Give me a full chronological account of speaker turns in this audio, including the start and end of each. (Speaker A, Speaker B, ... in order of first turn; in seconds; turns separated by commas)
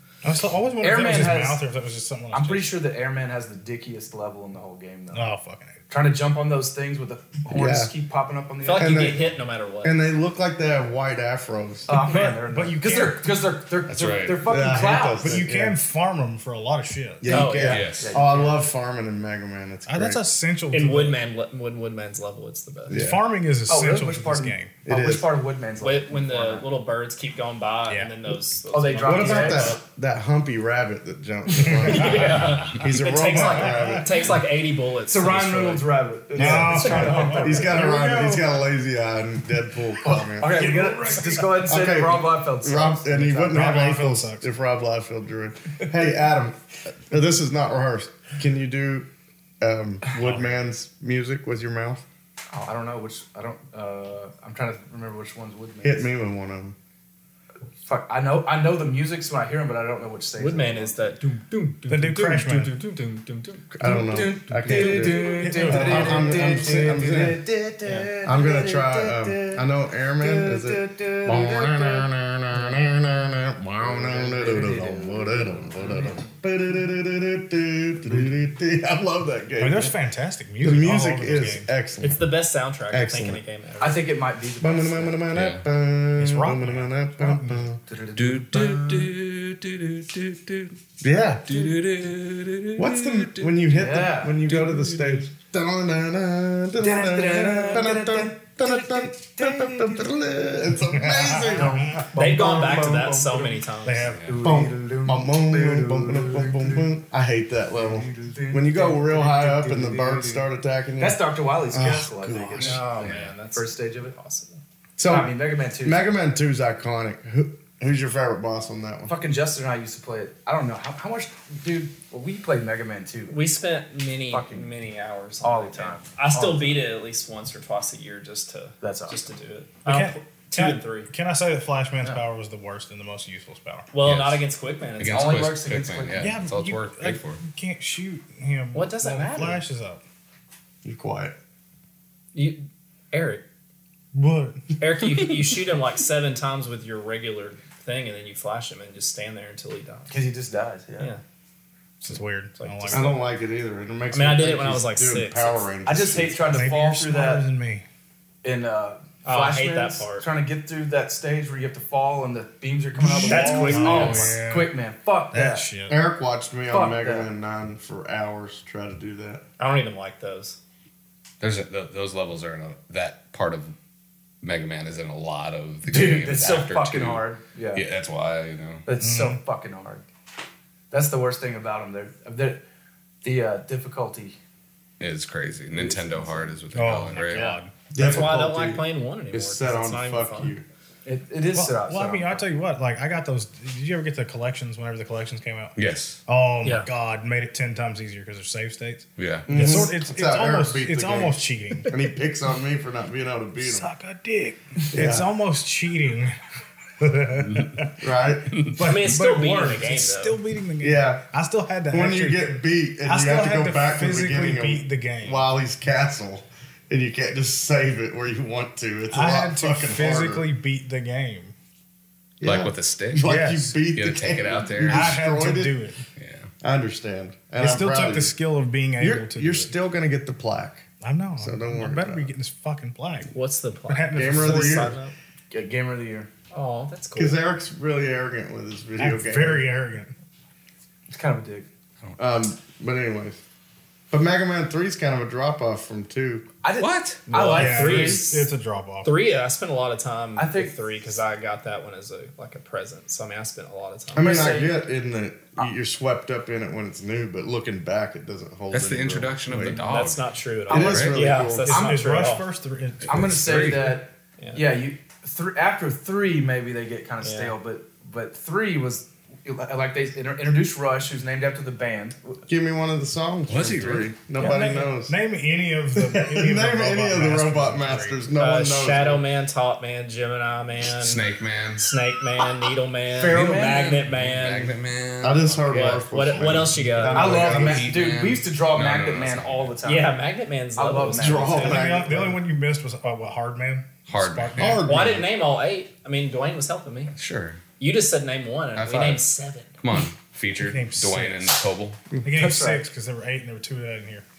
Speaker A: 0.2-2.7, Speaker B: 0.8-1.6, Speaker B: 2.3-5.3, Speaker A: 5.1-5.8, Speaker B: 5.9-9.1, Speaker C: 7.5-7.9, Speaker D: 8.6-10.0, Speaker C: 8.7-9.3, Speaker C: 9.8-12.0, Speaker B: 11.9-15.4, Speaker A: 12.0-13.3, Speaker E: 13.9-14.4, Speaker C: 14.4-15.8, Speaker A: 15.2-17.4, Speaker C: 17.2-20.2, Speaker D: 17.3-18.0, Speaker B: 17.6-18.6, Speaker E: 17.7-18.1, Speaker A: 19.9-21.2, Speaker D: 20.7-23.0, Speaker C: 22.9-23.2, Speaker A: 22.9-24.8, Speaker B: 23.7-26.6, Speaker C: 24.8-25.3, Speaker D: 25.8-29.8, Speaker A: 27.9-28.2, Speaker B: 28.7-29.8, Speaker C: 29.0-34.3, Speaker A: 31.6-32.7, Speaker D: 31.8-35.9, Speaker A: 33.3-34.3, Speaker B: 35.1-38.0, Speaker A: 36.3-38.5, Speaker D: 36.4-37.3, Speaker C: 37.4-40.8, Speaker B: 40.0-43.8, Speaker A: 40.5-41.6, Speaker C: 41.6-49.1, Speaker A: 43.5-44.5, Speaker C: 49.6-52.0, Speaker B: 52.5-56.1, Speaker C: 55.8-56.8, Speaker B: 57.8-61.0, Speaker D: 60.4-63.7, Speaker A: 61.9-62.8, Speaker C: 63.7-67.4, Speaker B: 63.8-69.6, Speaker A: 64.7-67.4, Speaker D: 64.8-65.2, Speaker D: 67.8-68.1, Speaker C: 68.2-79.9, Speaker B: 70.2-72.1, Speaker B: 73.8-76.2, Speaker A: 79.6-81.7, Speaker C: 80.6-82.3, Speaker D: 82.0-84.0, Speaker C: 82.9-83.4, Speaker B: 83.8-85.2, Speaker C: 84.6-87.8, Speaker E: 85.3-85.6, Speaker A: 86.2-87.7, Speaker B: 87.9-89.1, Speaker E: 88.2-90.8, Speaker C: 91.0-91.7, Speaker E: 91.5-93.6, Speaker C: 92.8-101.8, Speaker B: 93.7-94.5, Speaker E: 94.5-95.2, Speaker B: 96.8-100.1, Speaker A: 100.9-102.1, Speaker B: 101.0-103.7, Speaker D: 102.1-104.2, Speaker A: 103.8-104.5, Speaker E: 104.0-104.4, Speaker B: 104.2-106.9, Speaker C: 104.4-112.8, Speaker B: 107.8-110.5, Speaker B: 111.0-114.1, Speaker D: 112.6-114.6, Speaker E: 113.0-113.3, Speaker C: 115.0-119.1, Speaker B: 115.1-116.1, Speaker B: 119.1-123.4, Speaker D: 123.3-131.1, Speaker B: 124.3-124.7, Speaker B: 125.4-126.8, Speaker B: 128.8-129.2, Speaker A: 129.8-133.9, Speaker D: 133.9-135.3, Speaker E: 134.0-134.4, Speaker E: 135.0-137.4, Speaker B: 135.1-136.3, Speaker A: 136.2-140.0, Speaker D: 138.7-139.6, Speaker C: 140.8-141.3, Speaker D: 142.3-143.4, Speaker A: 144.1-144.6, Speaker D: 144.8-150.1, Speaker B: 150.1-151.1, Speaker A: 152.0-153.1, Speaker D: 152.6-153.2, Speaker C: 152.9-156.5, Speaker D: 154.1-155.7, Speaker B: 155.8-157.4, Speaker A: 156.5-157.8, Speaker B: 158.4-165.7, Speaker D: 159.2-160.2, Speaker A: 163.0-164.7, Speaker D: 163.1-164.3, Speaker A: 165.3-166.0, Speaker C: 165.9-169.4, Speaker B: 166.7-167.3, Speaker D: 169.6-170.6, Speaker E: 171.4-173.7, Speaker E: 174.4-178.8, Speaker B: 175.9-177.8, Speaker B: 178.8-180.0, Speaker A: 179.0-179.4, Speaker B: 180.9-182.6, Speaker B: 183.2-184.4, Speaker E: 185.0-187.5, Speaker B: 185.7-186.6, Speaker A: 186.7-188.3, Speaker D: 187.3-190.5, Speaker C: 187.9-190.6, Speaker B: 191.0-192.4, Speaker A: 191.5-195.7, Speaker E: 195.8-196.2, Speaker A: 196.2-201.9, Speaker D: 196.6-196.9, Speaker E: 199.2-199.8, Speaker C: 199.5-203.9, Speaker A: 203.6-206.3, Speaker C: 204.9-205.3, Speaker A: 207.0-208.0, Speaker C: 208.0-208.6, Speaker A: 208.6-215.4, Speaker D: 208.8-210.4, Speaker C: 210.8-211.3, Speaker C: 211.9-220.4, Speaker A: 219.1-221.5, Speaker C: 222.4-225.8, Speaker E: 222.4-225.2, Speaker A: 223.2-223.8, Speaker A: 224.9-226.0, Speaker E: 226.2-226.5, Speaker C: 226.6-228.3, Speaker A: 227.6-229.7, Speaker C: 229.0-232.3, Speaker A: 231.0-233.3, Speaker D: 233.3-235.1, Speaker A: 233.9-235.0, Speaker C: 234.1-235.0, Speaker B: 235.5-236.3, Speaker D: 236.5-237.4, Speaker C: 237.2-239.7, Speaker A: 239.0-240.1, Speaker B: 241.1-241.7, Speaker C: 242.2-243.4, Speaker C: 244.1-246.5, Speaker B: 246.6-248.5, Speaker E: 246.8-247.3, Speaker A: 247.3-249.2, Speaker D: 247.3-248.4, Speaker D: 249.0-254.5, Speaker B: 250.3-250.7, Speaker C: 254.1-259.8, Speaker B: 254.1-254.9, Speaker E: 258.7-261.1, Speaker D: 259.9-262.5, Speaker C: 260.7-261.7, Speaker A: 261.6-263.7, Speaker B: 261.7-262.0, Speaker E: 263.1-264.0, Speaker B: 263.1-272.4, Speaker D: 267.2-267.6, Speaker C: 272.5-275.1, Speaker E: 273.5-274.1, Speaker A: 274.4-278.2, Speaker C: 275.9-279.2, Speaker D: 278.4-281.2, Speaker E: 280.8-281.9, Speaker D: 281.8-284.7, Speaker B: 283.1-284.0, Speaker E: 283.3-286.6, Speaker C: 285.2-287.9, Speaker D: 285.7-287.5, Speaker B: 287.1-290.2, Speaker E: 287.4-289.7, Speaker D: 289.8-291.8, Speaker B: 290.8-292.1, Speaker C: 291.2-292.4, Speaker A: 291.6-294.8, Speaker E: 294.1-294.8, Speaker C: 294.6-295.3, Speaker D: 294.8-297.1, Speaker E: 297.1-297.6, Speaker D: 297.8-299.7, Speaker E: 298.8-299.2, Speaker E: 299.8-302.0, Speaker A: 300.7-301.4, Speaker A: 302.2-304.2, Speaker B: 302.3-302.8